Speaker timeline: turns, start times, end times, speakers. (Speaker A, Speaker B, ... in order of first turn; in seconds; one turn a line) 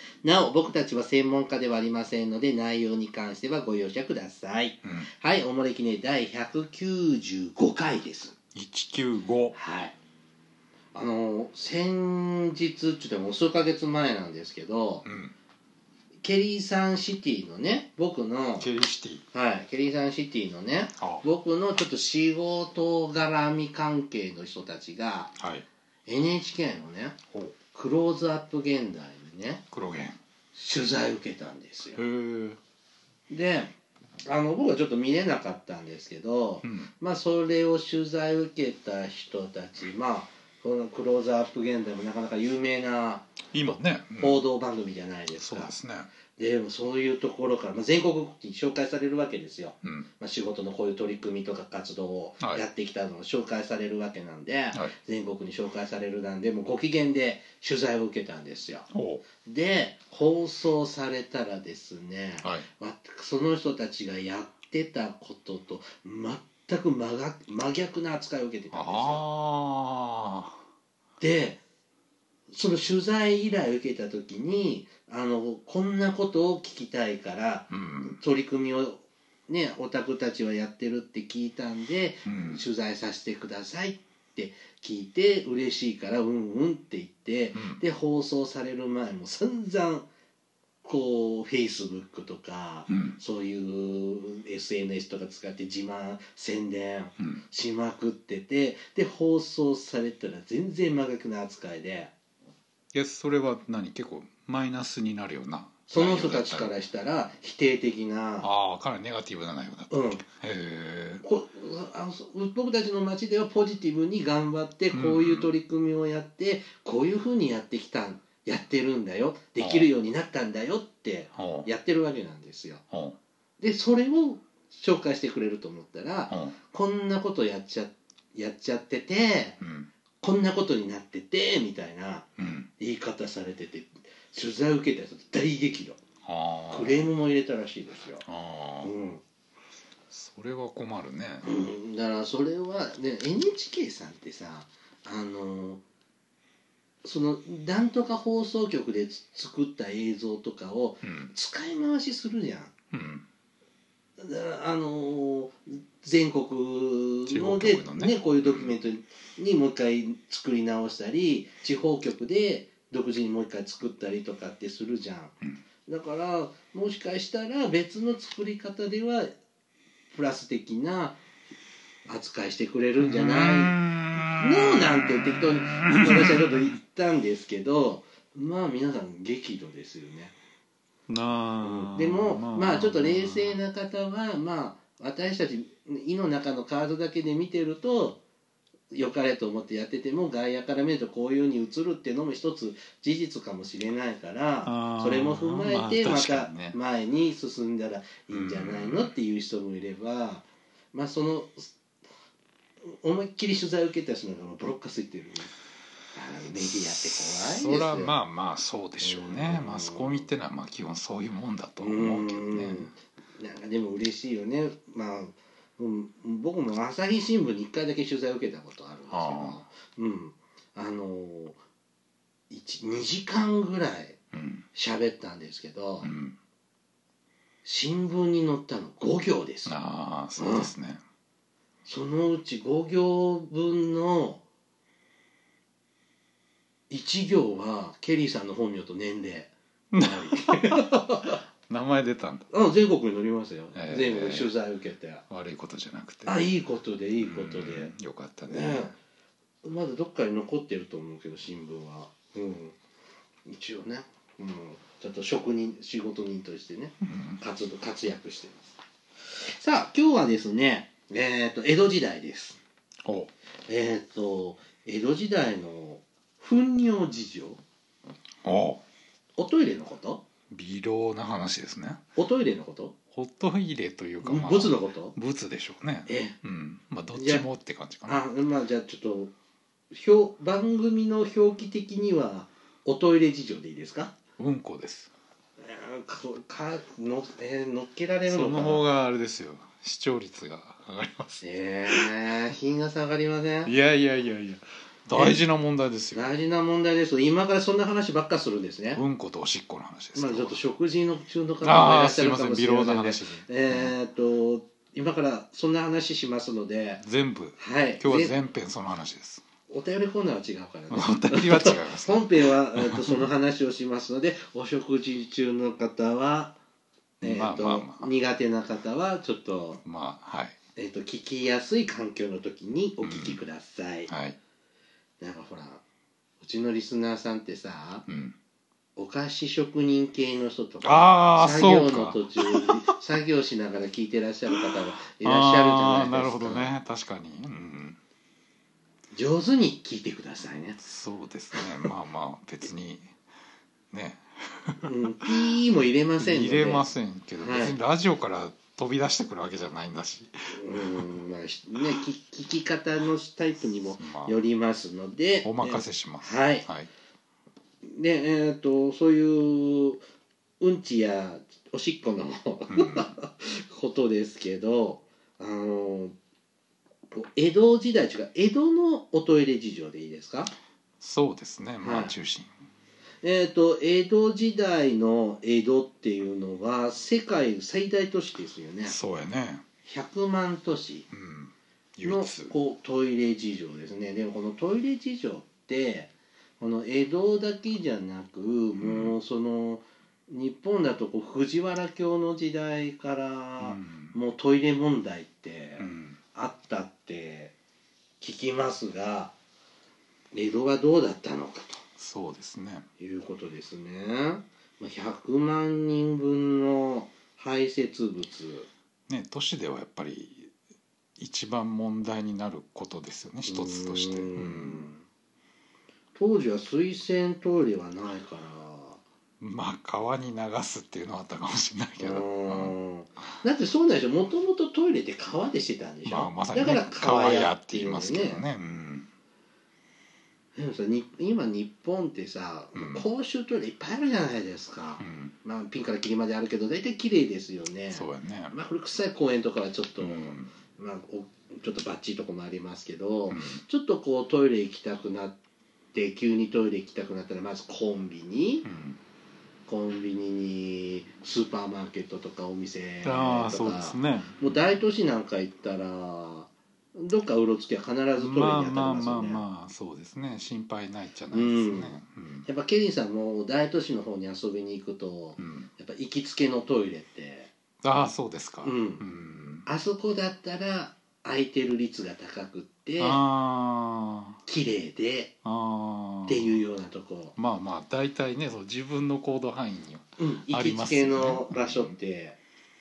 Speaker A: 0.2-8.3
Speaker B: 4.8-5.1
Speaker B: 8.5-9.6
Speaker A: 9.5-9.9
Speaker A: 10.9-15.1
Speaker B: 15.1-15.3
Speaker A: 16.2-18.7
Speaker B: 18.6-19.3
Speaker A: 19.3-25.3
Speaker B: 21.0-21.3
Speaker B: 25.4-25.7
Speaker A: 26.1-27.2
Speaker A: 27.7-29.6
Speaker B: 29.7-30.2
Speaker A: 30.6-32.0
Speaker B: 31.9-32.6
Speaker A: 33.3-33.7
Speaker A: 34.3-43.3
Speaker B: 36.6-36.9
Speaker B: 43.5-44.4
Speaker A: 44.2-45.7
Speaker B: 45.4-46.1
Speaker A: 46.4-58.9
Speaker B: 58.9-59.2
Speaker A: 59.4-69.2
Speaker B: 62.4-62.7
Speaker B: 68.7-70.6
Speaker A: 71.2-71.6
Speaker A: 72.5-90.1
Speaker B: 77.7-78.2
Speaker B: 82.3-82.6
Speaker B: 87.5-87.8
Speaker A: 90.8-102.1
Speaker B: 92.9-93.2
Speaker B: 102.9-106.7
Speaker A: 105.9-108.5
Speaker B: 108.4-111.2
Speaker A: 109.9-110.2
Speaker A: 111.2-122.8
Speaker B: 114.9-115.5
Speaker B: 119.6-119.9
Speaker B: 121.3-121.7
Speaker B: 122.9-123.2
Speaker A: 123.6-129.6
Speaker B: 126.3-126.6
Speaker B: 129.6-129.9
Speaker A: 130.2-132.3
Speaker B: 132.4-132.7
Speaker A: 132.8-136.0
Speaker B: 136.2-137.1
Speaker A: 136.7-138.2
Speaker B: 138.2-138.9
Speaker A: 138.8-139.2
Speaker B: 140.1-141.6
Speaker A: 141.4-145.8
Speaker A: 147.0-152.7
Speaker B: 151.0-151.3
Speaker B: 152.9-153.3
Speaker A: 154.2-165.3
Speaker B: 157.3-158.8
Speaker A: 165.9-169.3
Speaker A: 170.1-171.2
Speaker A: 172.1-180.3
Speaker B: 173.0-176.7
Speaker B: 181.1-183.6
Speaker A: 181.6-188.2
Speaker A: 188.9-201.7
Speaker B: 194.7-196.8
Speaker B: 198.3-199.1
Speaker A: 202.8-205.5
Speaker A: 206.1-208.1
Speaker B: 206.6-212.9
Speaker A: 209.0-210.3
Speaker A: 211.8-221.6
Speaker B: 219.1-219.6
Speaker A: 222.5-224.2
Speaker B: 224.3-224.7
Speaker A: 224.7-226.1
Speaker B: 226.0-226.4
Speaker A: 227.7-229.7
Speaker B: 229.7-231.0
Speaker A: 230.4-230.7
Speaker A: 231.9-234.4
Speaker A: 236.9-241.4
Speaker B: 239.9-241.0
Speaker B: 241.7-242.5
Speaker A: 242.5-245.2
Speaker B: 243.7-244.5
Speaker B: 245.3-246.5
Speaker A: 246.3-247.9
Speaker B: 247.2-248.8
Speaker A: 248.5-248.9
Speaker A: 249.6-252.8
Speaker A: 253.4-258.7
Speaker B: 257.0-257.4
Speaker A: 259.4-262.6
Speaker B: 263.0-263.3
Speaker A: 263.7-267.6
Speaker B: 268.4-268.8
Speaker A: 269.4-270.2
Speaker B: 270.5-272.0
Speaker A: 272.2-273.0
Speaker B: 273.1-278.2
Speaker A: 274.2-275.1
Speaker A: 276.1-276.4
Speaker A: 277.1-277.5
Speaker A: 278.1-279.3
Speaker A: 279.9-284.2
Speaker B: 284.4-285.1
Speaker A: 285.6-288.8
Speaker B: 288.3-292.1
Speaker A: 291.4-293.7
Speaker B: 293.6-296.3
Speaker A: 295.1-295.4
Speaker A: 296.1-299.0
Speaker B: 298.9-300.6
Speaker A: 300.2-307.0
Speaker B: 301.6-303.9
Speaker B: 307.0-309.4
Speaker A: 307.6-308.3
Speaker A: 309.7-316.6
Speaker B: 310.9-313.3
Speaker B: 317.2-318.1
Speaker A: 317.2-319.8
Speaker B: 319.8-320.6
Speaker A: 320.8-324.1
Speaker B: 323.0-323.4
Speaker B: 324.1-324.4
Speaker A: 325.2-325.8
Speaker A: 326.4-328.1
Speaker B: 328.1-328.4
Speaker A: 329.0-336.8
Speaker B: 330.8-332.9
Speaker B: 335.1-338.0
Speaker A: 339.1-340.8
Speaker B: 340.8-343.1
Speaker B: 343.9-345.3
Speaker A: 344.8-346.9
Speaker B: 346.2-351.1
Speaker A: 347.4-347.8
Speaker A: 350.5-356.7
Speaker B: 354.0-354.4
Speaker B: 355.4-356.9
Speaker A: 357.8-360.0
Speaker A: 360.6-366.2
Speaker B: 362.7-363.1
Speaker A: 367.1-370.5
Speaker B: 371.0-372.5
Speaker A: 371.8-372.1
Speaker A: 373.2-379.0
Speaker B: 378.9-379.6
Speaker A: 379.9-381.1
Speaker B: 381.1-382.5
Speaker A: 382.0-397.5
Speaker B: 388.8-389.1
Speaker B: 393.6-394.2
Speaker B: 395.8-396.2
Speaker A: 398.2-399.4
Speaker A: 400.3-401.8
Speaker B: 402.0-402.9
Speaker A: 403.0-408.7
Speaker B: 409.1-410.5
Speaker B: 411.2-414.9
Speaker A: 413.5-415.0
Speaker A: 416.1-419.0
Speaker B: 419.4-422.8
Speaker A: 422.0-428.4
Speaker B: 426.1-429.1
Speaker A: 430.6-445.4
Speaker B: 432.7-433.1
Speaker B: 435.0-435.4
Speaker B: 437.9-438.6
Speaker B: 440.0-440.5
Speaker B: 443.3-443.6
Speaker A: 445.9-448.6
Speaker B: 448.6-449.0
Speaker A: 449.7-459.4
Speaker B: 453.0-454.5
Speaker B: 458.2-462.5
Speaker A: 461.3-467.5
Speaker B: 465.4-465.7
Speaker B: 467.8-469.7
Speaker A: 468.6-469.0
Speaker A: 469.7-473.2
Speaker B: 473.0-474.4
Speaker A: 474.5-475.4
Speaker B: 475.4-476.6
Speaker A: 476.3-477.4
Speaker B: 477.4-482.0
Speaker A: 480.2-482.4